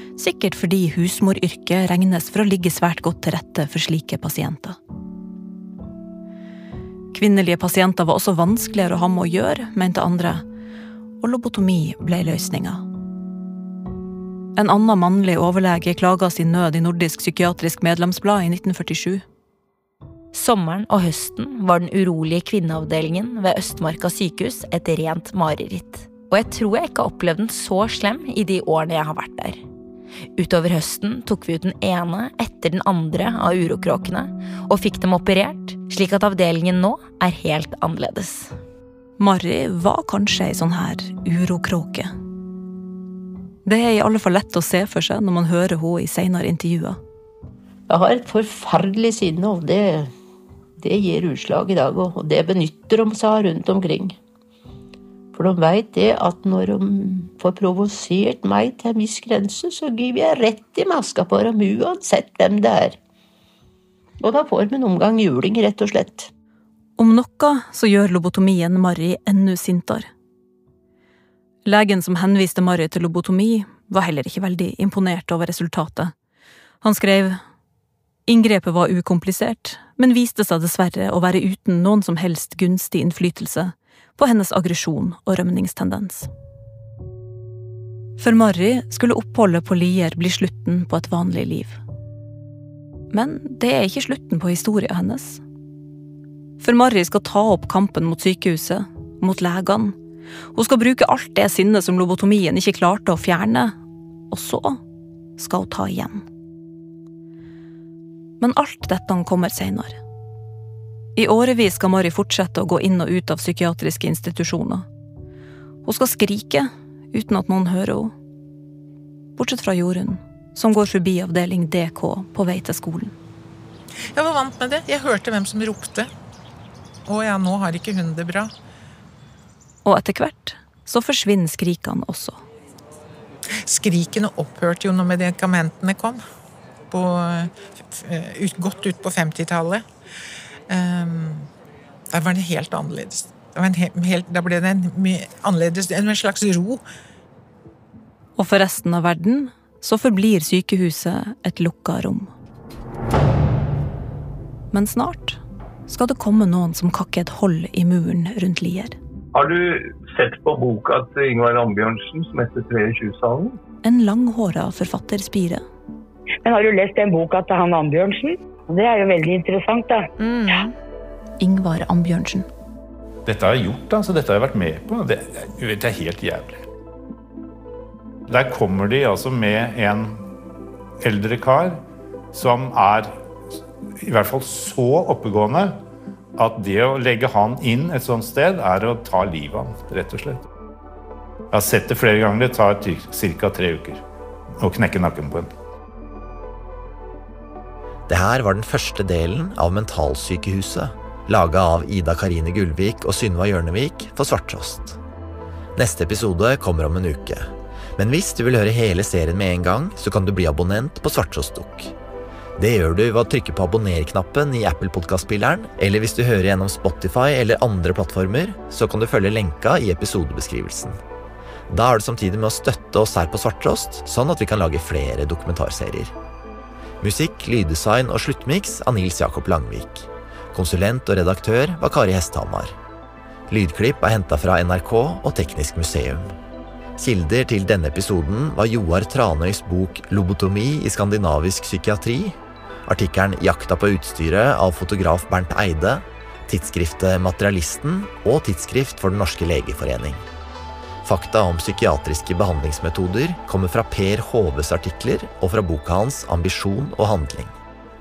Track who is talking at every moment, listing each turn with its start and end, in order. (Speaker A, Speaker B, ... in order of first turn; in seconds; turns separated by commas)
Speaker A: 0.2-4.8, Speaker A: 7.1-10.4, Speaker A: 11.2-12.8, Speaker A: 14.6-19.2, Speaker B: 20.3-29.6, Speaker B: 30.4-38.5, Speaker A: 39.2-42.1, Speaker A: 43.6-47.0, Speaker C: 47.9-50.1, Speaker C: 50.8-54.2, Speaker C: 55.4-63.0, Speaker C: 64.2-66.3, Speaker A: 67.0-70.1, Speaker A: 71.7-76.1, Speaker A: 76.8-77.4, Speaker A: 78.3-86.3, Speaker A: 88.2-91.8, Speaker A: 93.1-95.4, Speaker A: 96.6-100.0, Speaker A: 100.5-103.8, Speaker A: 104.3-104.8, Speaker A: 105.4-106.3, Speaker A: 108.4-110.0, Speaker A: 111.2-114.9, Speaker A: 115.8-118.1, Speaker A: 119.4-123.1, Speaker D: 124.2-126.1, Speaker D: 127.1-128.5, Speaker A: 129.8-132.4, Speaker D: 133.7-136.2, Speaker D: 136.9-139.8, Speaker D: 140.7-141.5, Speaker D: 142.1-146.8, Speaker A: 148.4-152.3, Speaker A: 154.7-159.0, Speaker E: 159.3-163.6, Speaker A: 163.8-165.6, Speaker F: 166.4-170.7, Speaker A: 171.4-172.5, Speaker G: 173.3-176.6, Speaker G: 178.3-180.2, Speaker G: 181.0-181.8, Speaker G: 182.3-183.2, Speaker G: 184.0-185.8, Speaker G: 186.4-190.4, Speaker G: 191.5-194.0, Speaker G: 194.6-195.5, Speaker H: 198.1-205.0, Speaker H: 205.8-211.9, Speaker H: 212.6-221.0, Speaker H: 221.7-226.1, Speaker H: 227.0-232.8, Speaker H: 233.5-236.3, Speaker H: 237.0-250.2, Speaker H: 251.0-257.5